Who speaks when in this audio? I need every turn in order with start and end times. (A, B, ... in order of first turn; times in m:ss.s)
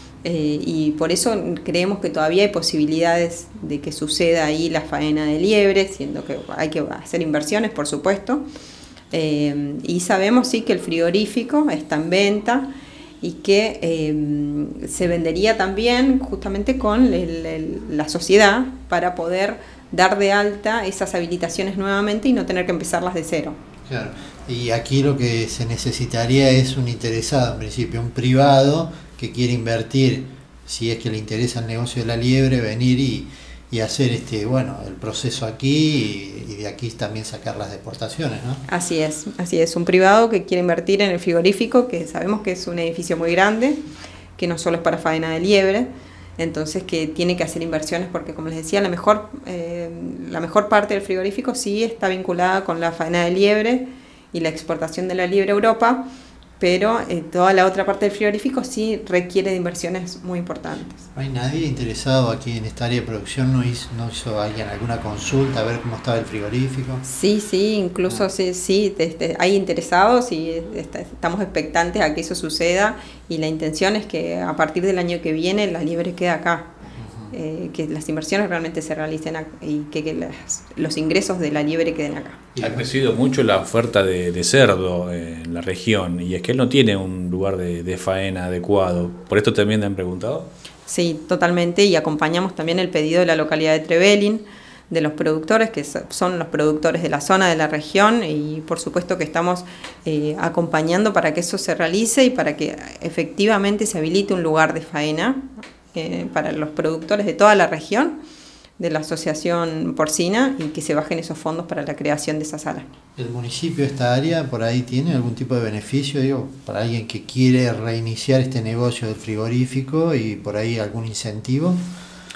0:00.2-0:08.4 A
0:09.1-0:12.7 A
0:13.2-0:23.6 A
0:23.9-0:38.6 B
0:38.7-0:43.8 A
0:44.4-0:56.0 A
0:56.6-1:01.1 A
1:01.2-1:07.0 B
1:07.0-1:16.7 A
1:17.0-1:17.3 B
1:17.3-1:22.4 A
1:22.6-1:22.9 B
1:22.6-1:30.5 C
1:30.9-1:45.4 A
1:45.9-1:48.2 A
1:48.8-1:52.9 A
1:53.2-2:01.8 B